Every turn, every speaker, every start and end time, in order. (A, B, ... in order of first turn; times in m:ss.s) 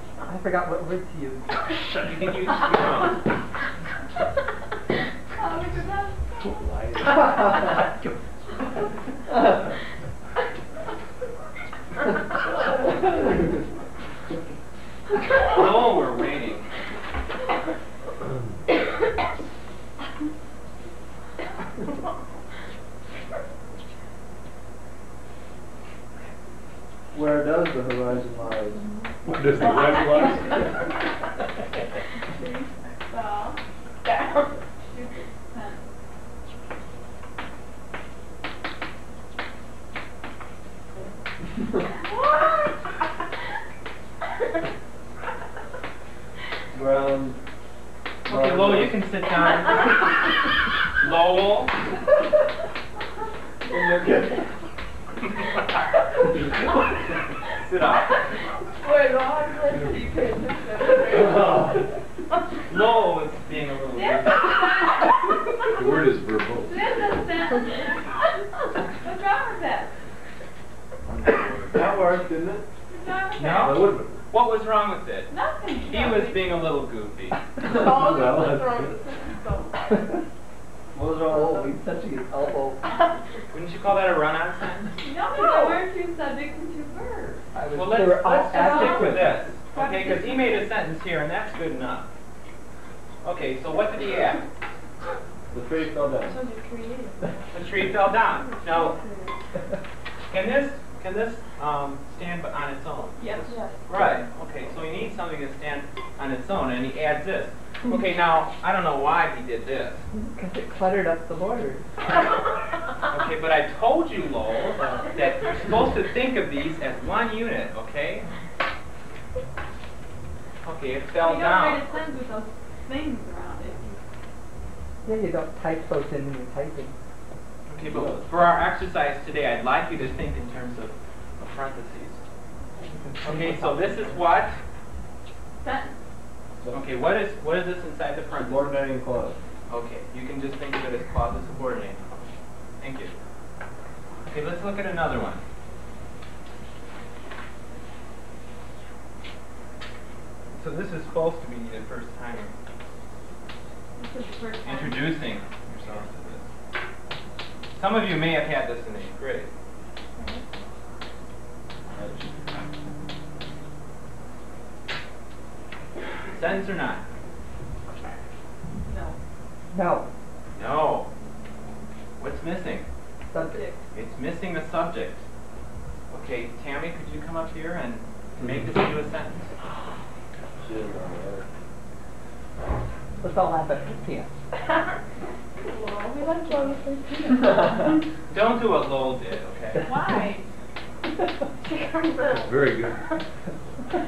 0:00.2-0:01.8 A
0:01.9-0:03.2 B
0:05.4-0:06.6 C
0:06.4-0:07.3 D
0:07.2-0:07.5 C
0:15.4-0:16.7 B
0:27.1-0:28.8 E
0:29.2-0:30.9 D
0:30.0-0:30.3 C
0:32.4-0:33.6 C
0:34.0-0:34.6 F
0:34.9-0:35.8 C
0:42.0-0:42.7 C
0:46.7-0:47.4 E
0:48.2-0:49.0 E
0:48.2-0:51.8 B
0:53.7-0:54.5 E
0:57.5-0:58.3 B
0:58.7-1:01.8 F
1:02.7-1:04.5 B
1:03.9-1:05.8 C
1:05.7-1:07.2 D
1:06.6-1:08.3 C
1:09.0-1:09.9 C
1:11.1-1:11.9 D
1:11.7-1:12.6 E
1:12.9-1:13.9 C
1:13.4-1:15.3 B
1:13.6-1:14.2 D
1:15.3-1:16.6 C
1:15.8-1:17.4 B
1:17.6-1:20.0 F
1:17.7-1:18.6 E
1:20.9-1:21.7 E
1:21.3-1:22.8 A
1:23.5-1:25.0 B
1:25.0-1:27.4 C
1:25.3-1:25.8 F
1:27.5-1:29.4 A
1:27.7-1:32.1 B
1:28.5-1:30.7 C
1:33.2-1:34.4 B
1:35.5-1:36.4 E
1:36.2-1:39.4 F
1:37.5-1:39.0 B
1:40.3-1:50.0 B
1:43.2-1:43.8 F
1:43.9-1:44.2 A
1:50.1-1:51.9 A
1:53.0-1:58.3 B
2:00.6-2:01.9 B
2:01.2-2:03.9 C
2:05.0-2:07.0 A
2:07.7-2:12.2 B
2:07.8-2:08.3 E
2:12.8-2:14.2 A
2:13.2-2:14.6 B
2:15.6-2:16.0 C
2:16.7-2:18.8 B
2:18.3-2:19.4 E
2:19.7-2:22.0 B
2:22.8-2:23.1 B
2:24.3-2:25.4 B
2:30.5-2:32.5 B
2:34.0-2:35.2 C
2:34.6-2:36.4 B
2:37.7-2:39.5 B
2:40.2-2:40.4 F
2:46.3-2:47.0 B
2:48.9-2:49.2 C
2:49.7-2:50.1 A
2:50.6-2:51.1 B
2:52.2-2:52.8 B
2:53.2-2:53.6 A
2:53.4-2:53.9 C
2:53.9-2:55.2 B
2:56.1-2:59.5 B
2:58.4-2:58.7 E
3:00.6-3:01.4 E
3:03.2-3:04.3 A
3:05.6-3:07.6 F
3:08.3-3:09.9 B
3:09.8-3:10.4 C
3:11.6-3:12.7 F
3:12.2-3:13.1 D